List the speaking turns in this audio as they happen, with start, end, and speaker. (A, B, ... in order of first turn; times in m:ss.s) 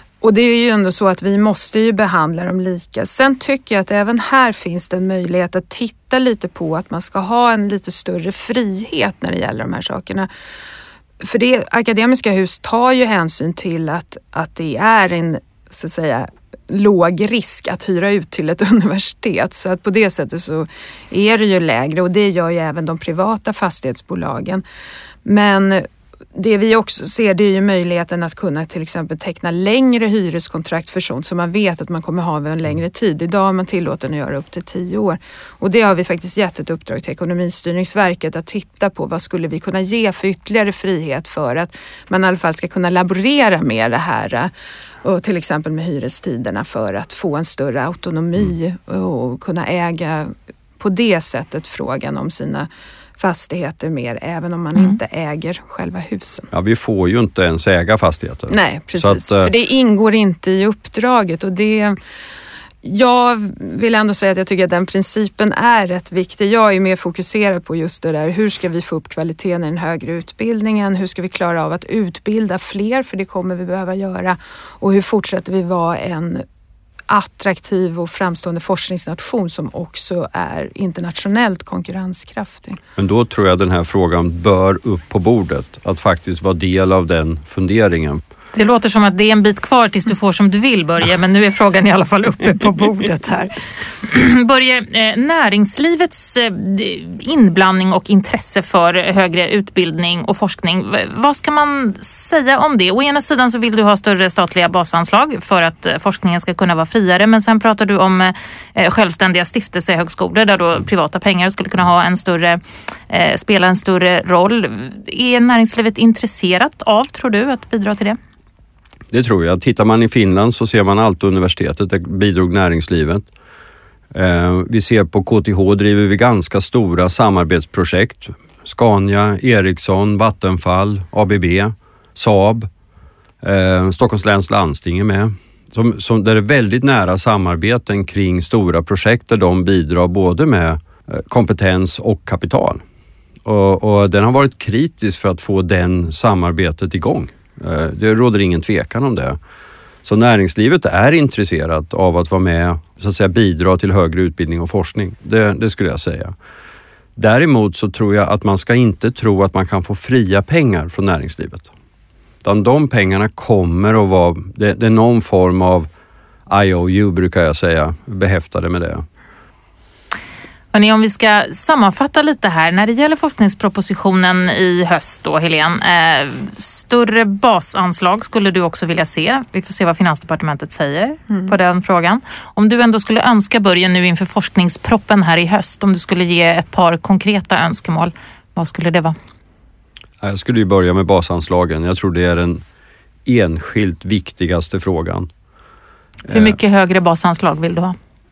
0:00.2-0:10.3 A
0:11.2-0:24.6 A
0:25.2-0:44.5 A
0:45.0-0:56.5 A
0:56.5-0:59.5 B
0:58.5-1:02.0 A
1:02.8-1:16.4 A
1:17.1-1:22.8 A
1:23.0-1:28.2 B
1:28.5-1:58.2 C
1:59.1-2:03.2 B
2:04.1-2:12.7 B
2:13.4-2:22.8 B
2:23.4-2:29.4 B
2:30.0-2:36.3 B
2:37.2-2:41.7 B
2:42.4-2:45.9 B
2:46.5-2:49.0 B
2:50.7-3:09.1 C
3:10.2-3:12.6 B
3:13.2-3:15.3 B
3:16.3-3:16.6 B
3:16.3-3:18.0 C